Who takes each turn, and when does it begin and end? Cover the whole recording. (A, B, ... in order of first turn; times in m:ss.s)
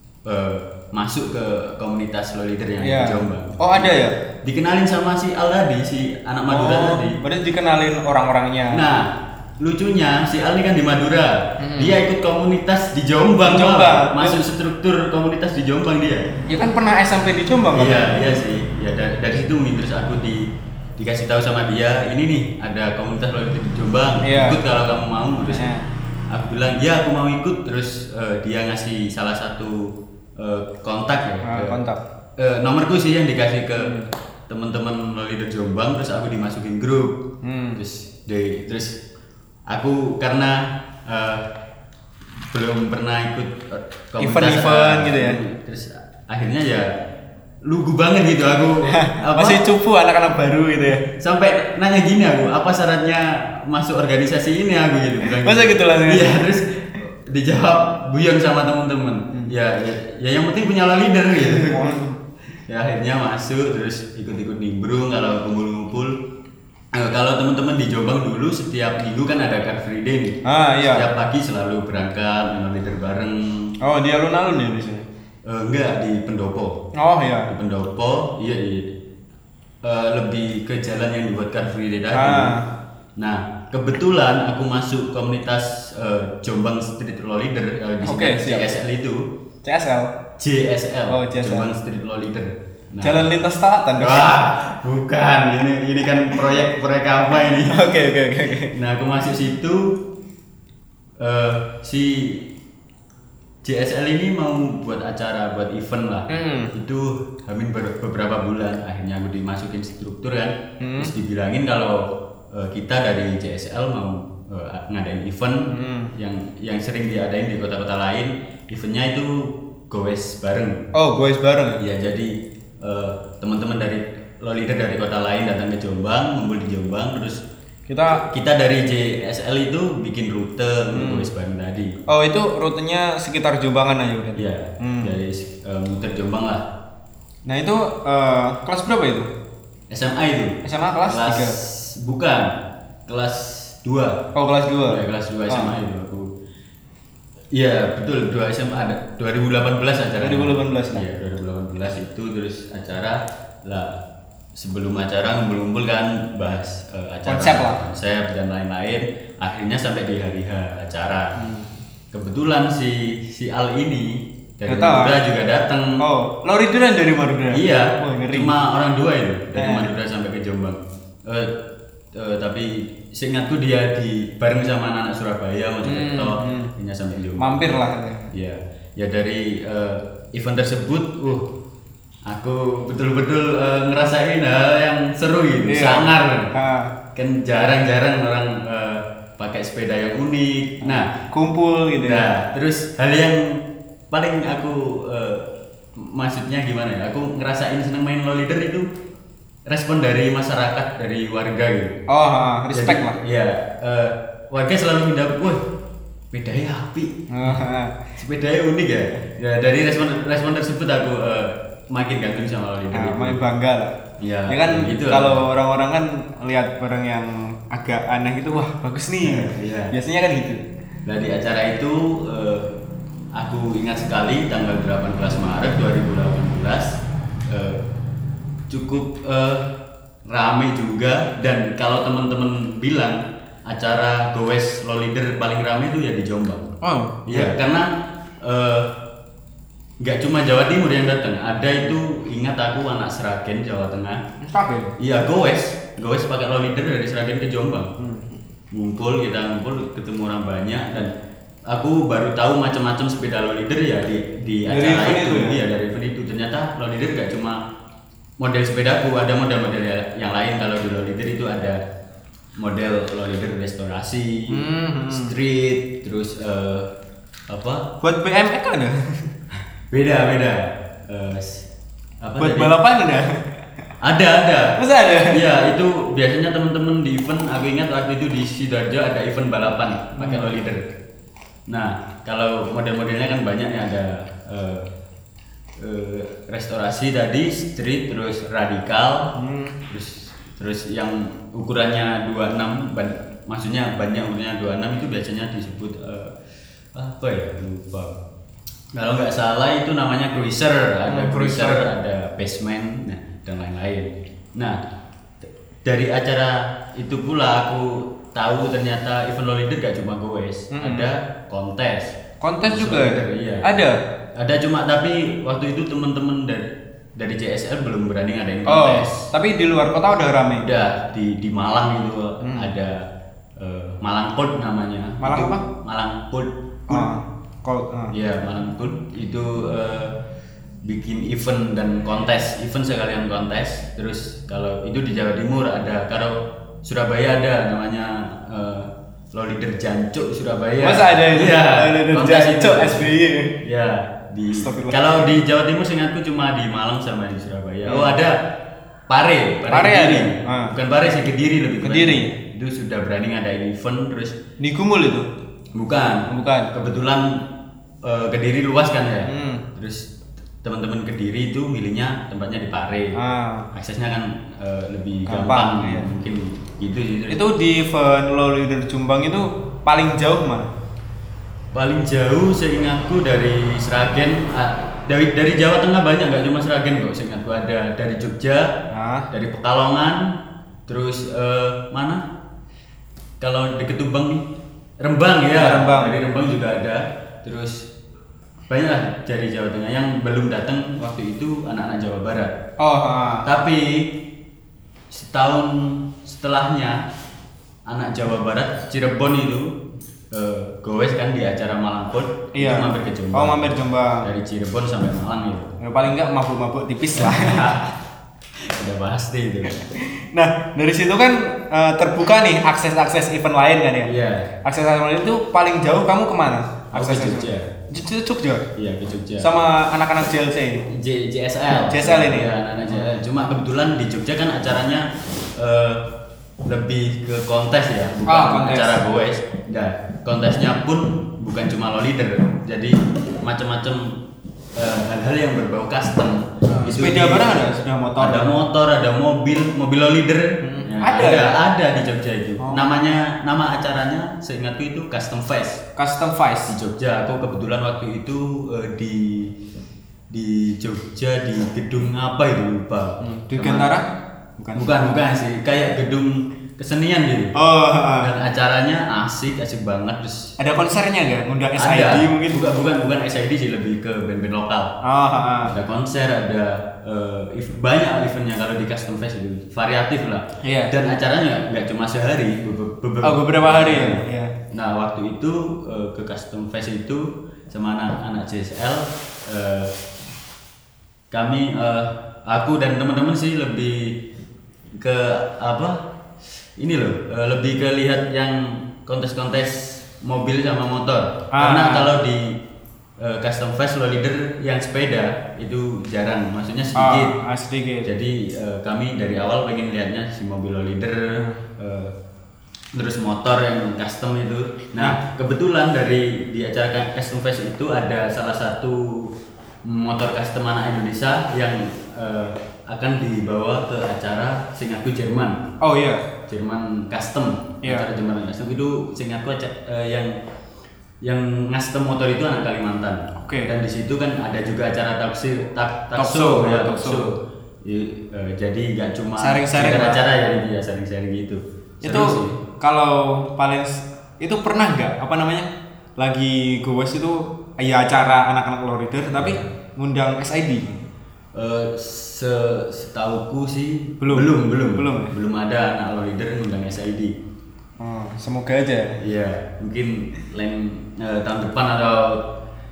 0:00.2-0:07.2 A
0:02.8-0:04.1 B
0:06.5-0:08.8 B
0:08.7-0:16.3 A
0:11.6-0:12.0 B
0:13.4-0:14.4 B
0:16.5-0:18.2 B
0:17.7-0:25.7 A
0:24.2-0:24.6 B
0:25.5-0:25.8 B
0:26.3-0:31.8 A
0:31.4-0:32.0 B
0:32.4-0:39.0 A
0:33.8-0:34.1 B
0:37.4-0:37.8 B
0:39.7-0:41.5 A
0:42.5-0:46.9 A
0:44.2-0:45.4 B
0:47.6-0:49.6 A
0:48.9-0:51.1 B
0:51.2-1:02.0 A
0:55.2-0:56.4 B
1:01.4-1:02.2 B
1:02.7-1:06.2 A
1:06.9-1:13.7 A
1:10.4-1:11.1 B
1:13.8-1:15.0 B
1:15.4-1:16.8 A
1:16.9-1:17.5 B
1:17.5-1:19.0 A
1:19.8-1:22.6 A
1:22.1-1:22.7 B
1:23.2-1:29.3 A
1:28.0-1:28.7 B
1:29.6-1:30.1 B
1:30.4-1:33.3 A
1:31.1-1:31.7 B
1:33.0-1:34.3 B
1:34.0-1:37.9 A
1:37.6-1:38.7 B
1:38.7-1:40.0 A
1:41.2-1:42.5 A
1:43.6-2:00.8 A
1:46.3-1:46.7 B
1:50.8-1:51.1 B
1:55.7-1:56.1 B
2:00.9-2:01.8 B
2:01.8-2:07.4 A
2:07.9-2:08.2 B
2:08.1-2:11.9 A
2:10.9-2:11.3 B
2:12.1-2:15.2 B
2:14.4-2:16.6 A
2:17.4-2:19.3 B
2:19.9-2:22.6 A
2:20.6-2:21.6 B
2:23.1-2:24.3 A
2:24.3-2:25.7 B
2:24.9-2:26.3 A
2:27.5-2:34.0 A
2:30.2-2:31.0 B
2:34.5-2:41.4 A
2:37.2-2:37.8 B
2:41.4-2:41.7 B
2:42.1-2:46.0 A
2:44.7-2:45.2 B
2:46.0-2:48.5 B
2:47.5-2:51.6 A
2:49.6-2:49.9 B
2:52.1-2:57.6 A
2:55.8-2:56.7 B
2:57.4-2:58.3 B
2:58.3-3:01.5 A
3:02.2-3:06.5 A
3:05.7-3:06.9 B
3:07.1-3:11.2 A
3:10.8-3:12.3 B
3:12.0-3:18.9 A
3:19.7-3:22.0 A
3:22.1-3:23.2 B
3:22.7-3:25.6 A
3:26.3-3:27.6 A
3:27.3-3:28.0 B
3:28.2-3:33.4 A
3:32.9-3:33.9 B
3:34.2-3:35.4 A
3:34.5-3:40.6 B
3:39.2-3:39.9 A
3:41.0-3:42.8 A
3:43.4-3:47.8 A
3:48.7-3:49.7 A
3:50.2-3:56.7 A
3:56.8-3:57.6 B
3:57.2-3:58.9 A
4:00.0-4:04.2 A
4:04.4-4:05.0 B
4:05.0-4:07.9 A
4:08.0-4:08.2 B
4:08.7-4:11.1 A
4:11.7-4:17.6 A
4:14.7-4:15.6 B
4:18.4-4:21.8 A
4:22.6-4:26.9 A
4:24.5-4:25.3 B
4:27.5-4:27.9 A
4:28.0-4:29.3 B
4:29.9-4:31.7 A
4:32.2-4:32.8 A
4:32.4-4:33.4 B
4:34.0-4:40.9 A
4:34.8-4:35.6 B
4:40.2-4:40.5 B
4:41.7-4:44.9 A
4:45.8-4:49.3 A
4:49.3-4:49.8 B
4:49.9-4:56.3 A
4:56.9-4:58.2 A
4:58.9-5:04.8 A
5:01.1-5:01.9 B
5:05.8-5:13.7 A
5:10.7-5:11.1 B
5:12.4-5:14.0 B
5:14.4-5:19.3 A
5:18.6-5:20.7 B
5:20.5-5:27.1 A
5:22.4-5:22.7 B
5:25.2-5:25.6 B
5:26.9-5:28.1 B
5:28.1-5:30.2 A
5:30.8-5:48.4 A
5:40.8-5:43.6 B
5:44.5-5:45.3 B
5:47.8-5:48.2 B
5:49.1-5:54.4 A
5:49.7-5:50.7 B
5:51.8-5:52.3 B
5:54.6-5:55.3 B
5:55.7-5:57.5 A
5:56.3-5:56.7 B
5:58.0-6:00.1 A
5:59.2-5:59.6 B
6:00.6-6:03.2 A
6:03.1-6:03.7 B
6:03.7-6:07.4 A
6:05.3-6:06.1 B
6:07.3-6:10.7 B
6:11.7-6:18.7 A
6:18.9-6:19.3 B
6:19.3-6:20.3 A
6:20.9-6:22.2 A
6:23.4-6:24.5 A
6:25.0-6:27.9 A
6:25.5-6:26.2 B
6:28.7-6:32.5 A
6:32.8-6:33.5 B
6:33.4-6:34.2 A
6:35.1-6:37.0 A
6:37.9-6:39.8 A
6:40.3-6:45.7 A
6:42.5-6:44.3 B
6:45.8-6:47.8 B
6:47.1-6:47.9 A
6:48.6-6:49.8 A
6:49.9-6:58.6 B
6:54.0-6:54.5 A
6:56.9-6:57.7 A
6:58.8-6:59.5 A
6:59.4-7:00.8 B
7:00.9-7:06.0 A
7:01.7-7:03.2 B
7:06.6-7:14.2 A
7:08.3-7:09.0 B
7:14.8-7:25.8 A
7:16.7-7:18.5 B
7:20.6-7:21.6 B
7:22.6-7:22.9 B
7:26.0-7:26.7 B
7:26.7-7:29.5 A
7:30.3-7:33.9 A
7:33.2-7:34.1 B
7:34.6-7:34.9 B
7:34.7-7:37.5 A
7:37.5-7:38.3 B
7:38.1-7:40.5 A
7:40.6-7:42.6 B
7:41.8-7:45.0 A
7:45.0-7:45.7 B
7:45.6-7:59.9 A
7:50.6-7:50.9 B
7:53.2-7:54.5 B
8:01.3-8:04.2 A
8:05.0-8:06.0 A
8:06.8-8:12.6 A
8:11.5-8:12.1 B
8:13.2-8:17.4 A
8:16.9-8:18.1 B
8:18.0-8:22.1 A
8:22.9-8:29.3 A
8:29.8-8:35.6 A
8:35.8-8:36.2 B
8:36.5-8:40.3 A
8:37.8-8:38.1 B
8:41.2-8:52.6 A
8:43.4-8:43.7 B
8:46.2-8:47.3 B
8:49.4-8:50.2 B
8:52.0-9:01.0 B
8:59.3-8:59.6 A
9:01.5-9:07.3 A
9:04.2-9:05.3 B
9:08.0-9:09.2 B
9:09.2-9:12.5 A